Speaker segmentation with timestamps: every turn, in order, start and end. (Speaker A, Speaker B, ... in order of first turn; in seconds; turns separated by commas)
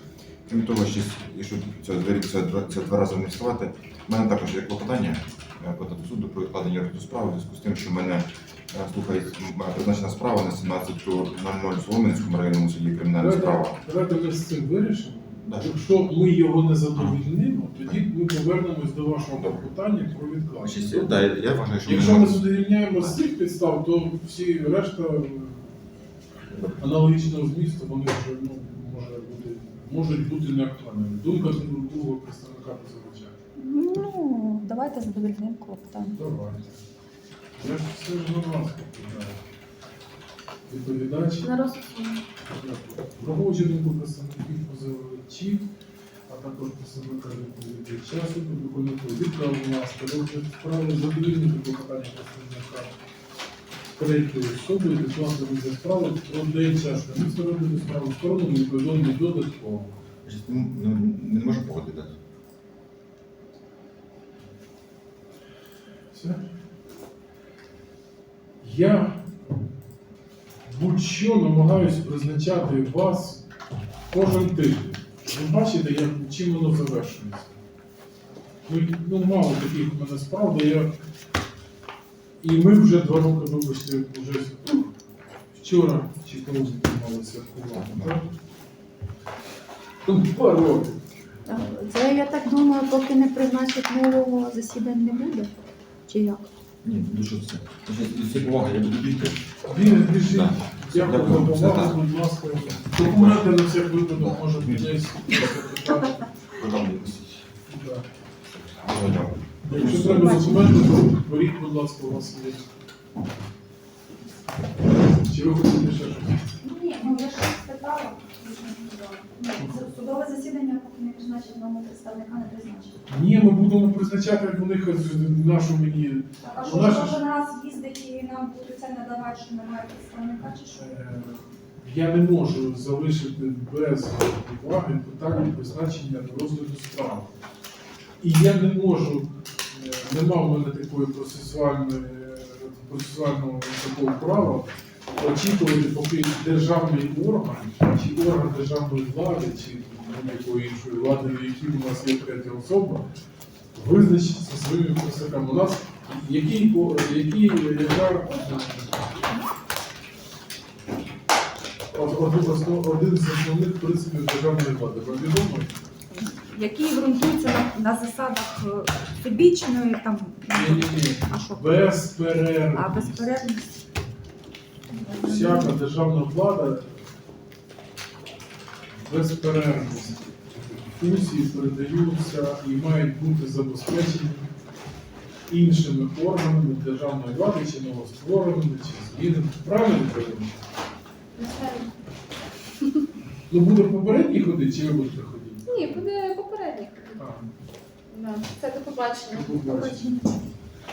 Speaker A: 0.5-13.8, Speaker B: 13.2-21.2, Speaker A: 15.4-16.1, Speaker A: 16.9-17.2, Speaker A: 19.4-19.6, Speaker A: 20.6-23.2, Speaker B: 21.8-25.8, Speaker B: 26.7-33.4, Speaker C: 33.6-36.2, Speaker B: 36.1-36.8, Speaker B: 37.6-39.4, Speaker B: 40.7-41.5, Speaker D: 41.4-42.2, Speaker B: 42.5-45.7, Speaker B: 46.3-52.9, Speaker B: 54.0-59.9, Speaker A: 60.2-62.2, Speaker B: 66.1-66.5, Speaker B: 68.6-69.3, Speaker B: 70.7-73.4, Speaker B: 74.1-77.5, Speaker B: 78.7-80.9, Speaker B: 82.4-85.0, Speaker B: 85.5-88.3, Speaker A: 87.8-88.1, Speaker B: 90.1-91.0, Speaker C: 91.5-95.5, Speaker C: 96.1-96.5, Speaker A: 96.8-102.1, Speaker B: 99.7-106.2, Speaker A: 102.7-105.0, Speaker A: 106.5-107.5, Speaker B: 107.7-108.1, Speaker A: 108.7-110.4, Speaker B: 109.6-112.7, Speaker B: 115.1-116.5, Speaker C: 116.6-123.0, Speaker B: 119.6-119.8, Speaker B: 123.1-127.2, Speaker C: 126.4-130.9, Speaker B: 130.7-137.3, Speaker B: 138.2-153.0, Speaker B: 153.7-159.0, Speaker B: 161.9-165.8, Speaker C: 166.1-171.9, Speaker B: 170.5-173.3, Speaker C: 172.7-173.7, Speaker B: 174.9-177.0, Speaker C: 175.0-175.7, Speaker B: 178.9-184.5, Speaker B: 185.5-190.6, Speaker D: 191.4-191.9, Speaker B: 193.5-196.1, Speaker D: 195.7-197.2, Speaker B: 197.2-197.5, Speaker D: 198.1-200.2, Speaker B: 199.3-200.2